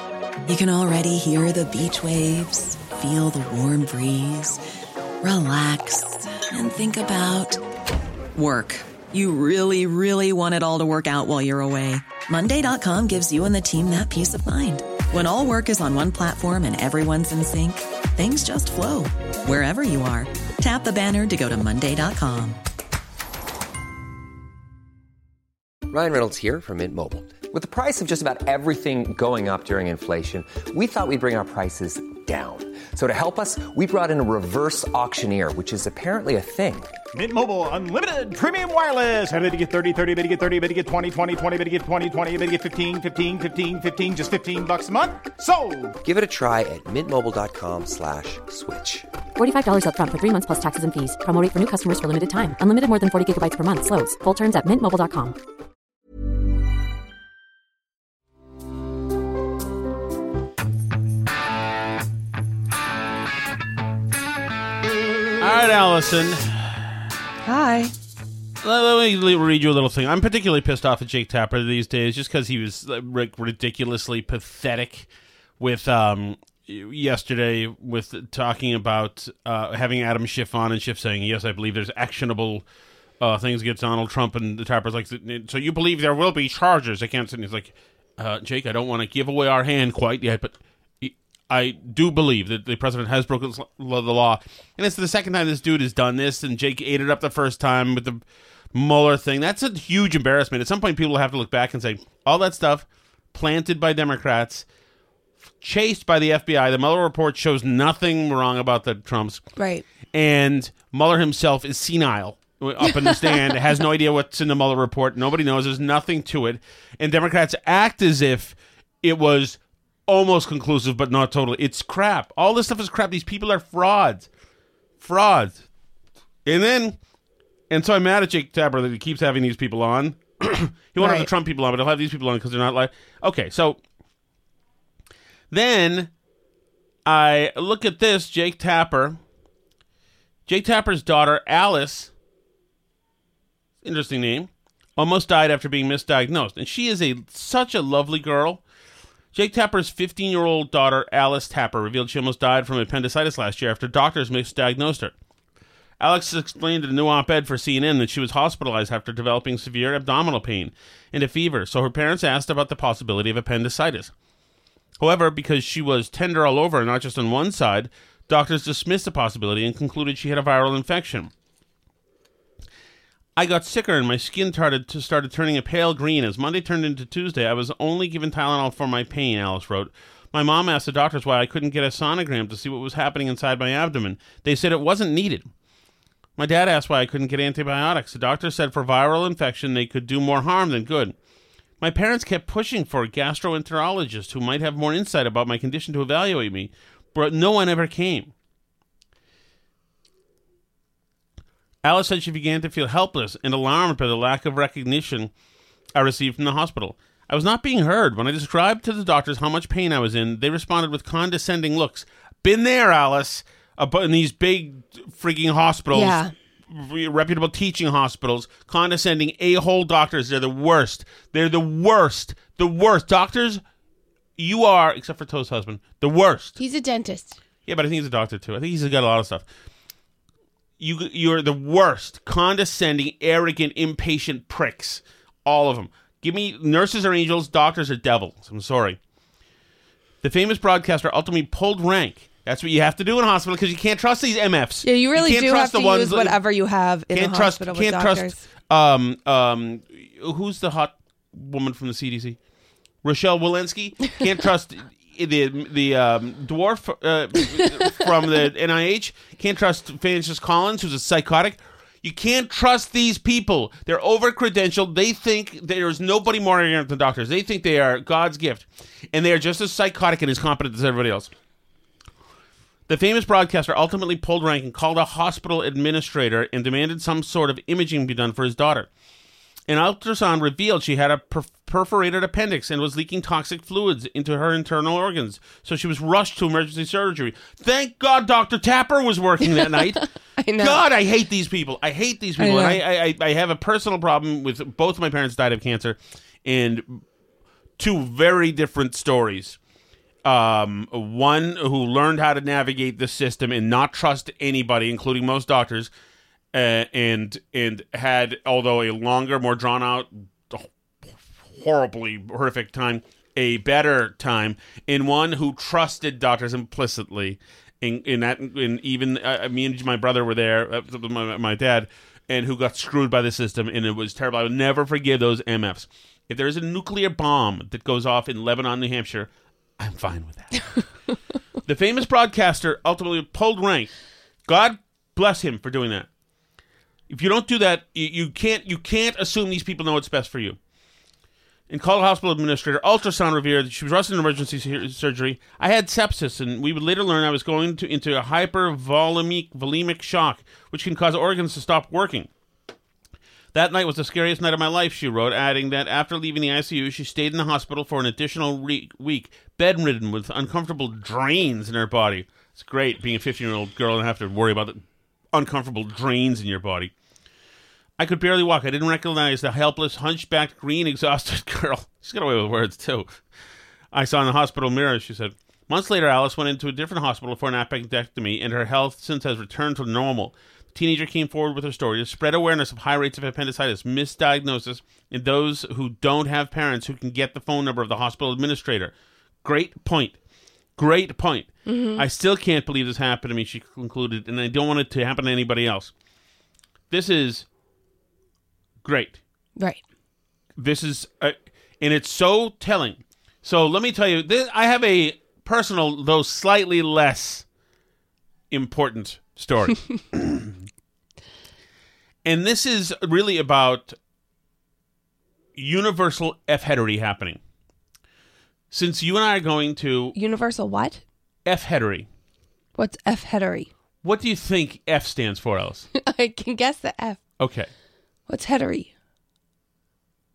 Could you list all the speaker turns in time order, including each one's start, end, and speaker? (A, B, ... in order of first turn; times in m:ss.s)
0:00.5-0:04.6 A
0:05.2-0:07.6 A
0:08.4-0:22.6 A
0:25.9-0:36.9 B
0:37.1-0:45.9 C
0:46.0-0:49.0 B
0:49.4-0:55.4 D
1:05.4-1:07.0 E
1:07.4-1:07.9 F
1:08.6-1:22.6 E
1:23.2-1:38.2 E
1:38.7-1:44.6 E
1:45.6-1:49.4 E
1:49.6-1:49.8 F
1:50.1-2:04.3 E
1:52.8-1:53.6 F
2:05.0-2:05.6 E
2:06.4-2:07.0 E
2:07.7-2:13.8 E
2:11.0-2:11.3 F
2:15.5-2:16.1 E
2:17.0-2:19.2 E
2:20.4-2:22.1 E
2:23.8-2:28.6 E
2:29.3-2:35.1 E
2:36.0-2:44.1 E
2:45.0-2:51.3 E
2:53.4-3:05.5 E
3:06.4-3:11.2 E
3:11.8-3:18.3 E
3:21.8-3:25.3 E
3:25.9-3:43.6 E
3:35.9-3:36.3 F
3:44.4-3:46.6 E
3:46.6-3:47.4 F
3:47.6-3:49.5 E
3:50.8-3:59.0 E
4:00.2-4:06.4 E
4:04.8-4:08.4 F
4:07.1-4:12.4 E
4:13.0-4:31.3 E
4:32.9-4:38.9 E
4:39.7-4:50.0 E
4:49.5-4:50.8 F
4:50.6-4:57.0 E
4:52.4-4:52.8 F
4:57.8-4:59.6 E
5:00.2-5:05.9 E
5:06.5-5:30.8 E
5:31.6-5:33.9 E
5:34.4-5:36.1 E
5:37.1-5:40.6 E
5:41.7-5:52.3 E
5:53.5-6:06.9 E
6:08.0-6:13.2 E
6:13.9-6:30.2 E
6:30.8-6:35.9 E
6:31.6-6:32.0 F
6:36.9-6:37.4 E
6:38.8-6:39.2 E
6:39.6-6:39.8 F
6:40.6-6:47.4 E
6:48.5-6:50.6 E
6:52.2-6:54.0 E
6:55.6-6:57.4 E
6:58.7-7:00.1 E
7:00.1-7:01.0 F
7:01.4-7:02.1 E
7:02.8-7:03.7 F
7:04.0-7:05.9 E
7:05.9-7:07.2 F
7:07.4-7:07.7 E
7:08.3-7:08.9 F